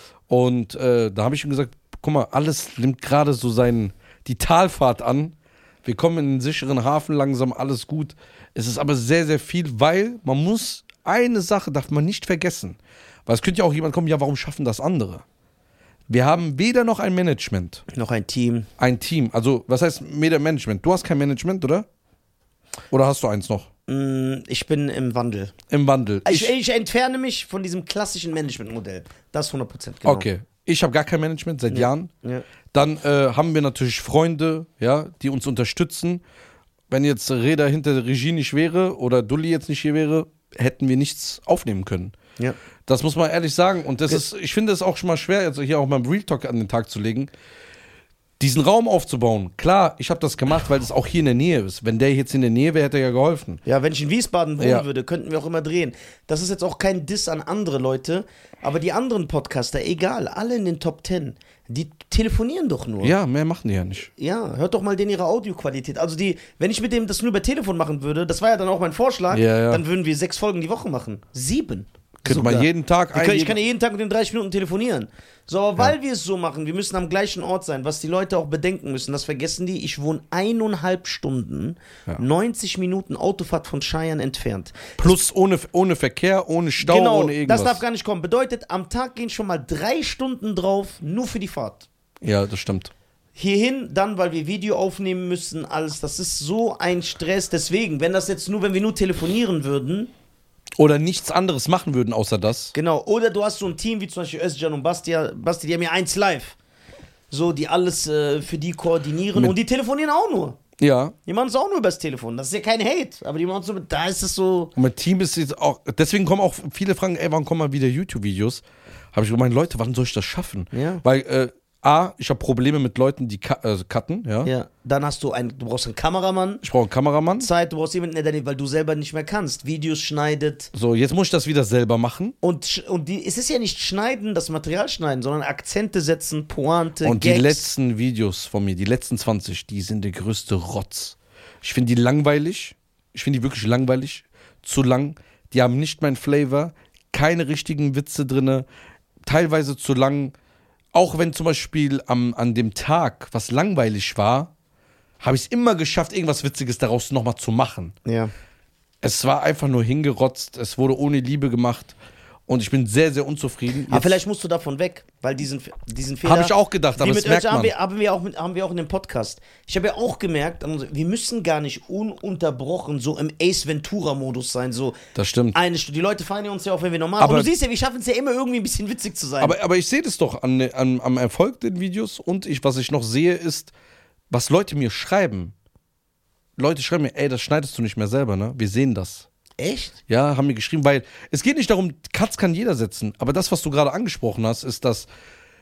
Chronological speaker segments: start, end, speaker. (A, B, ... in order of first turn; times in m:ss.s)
0:00.3-0:15.2 A
0:16.1-0:17.8 A
0:17.9-0:18.7 B
0:18.8-0:21.9 A
0:22.9-0:23.7 A
0:23.9-0:25.5 B
0:25.7-0:26.5 A
0:26.2-0:30.3 B
0:30.0-0:32.1 A
0:31.7-0:32.4 B
0:32.7-0:36.2 A
0:36.9-0:42.1 A
0:42.8-0:47.3 A
0:48.4-0:53.6 A
0:53.6-1:03.2 B
0:54.6-0:54.8 A
1:03.0-1:04.1 A
1:04.2-1:25.2 B
1:09.3-1:09.8 A
1:12.2-1:13.6 A
1:25.0-1:27.8 A
1:26.8-1:31.8 B
1:32.2-1:32.9 A
1:33.4-1:40.1 B
1:40.8-1:42.7 A
1:42.7-1:46.6 B
1:47.3-1:50.6 B
1:50.8-1:51.1 A
1:51.2-1:54.7 B
1:54.8-2:04.5 A
2:00.7-2:01.0 B
2:04.4-2:06.6 B
2:06.6-2:07.5 A
2:07.4-2:10.7 B
2:10.7-2:12.3 A
2:12.4-2:17.7 B
2:17.0-2:28.6 A
2:29.2-2:30.3 A
2:30.9-2:34.5 A
2:35.2-2:37.9 A
2:38.0-2:38.3 B
2:39.0-2:42.0 A
2:42.5-2:44.2 A
2:43.9-2:55.0 B
2:46.2-2:47.7 A
2:55.2-2:55.6 A
2:55.5-2:59.6 B
2:57.2-2:57.5 A
2:59.4-3:03.7 A
3:04.3-3:05.5 A
3:06.6-3:09.3 A
3:09.6-3:10.0 B
3:10.1-3:15.1 A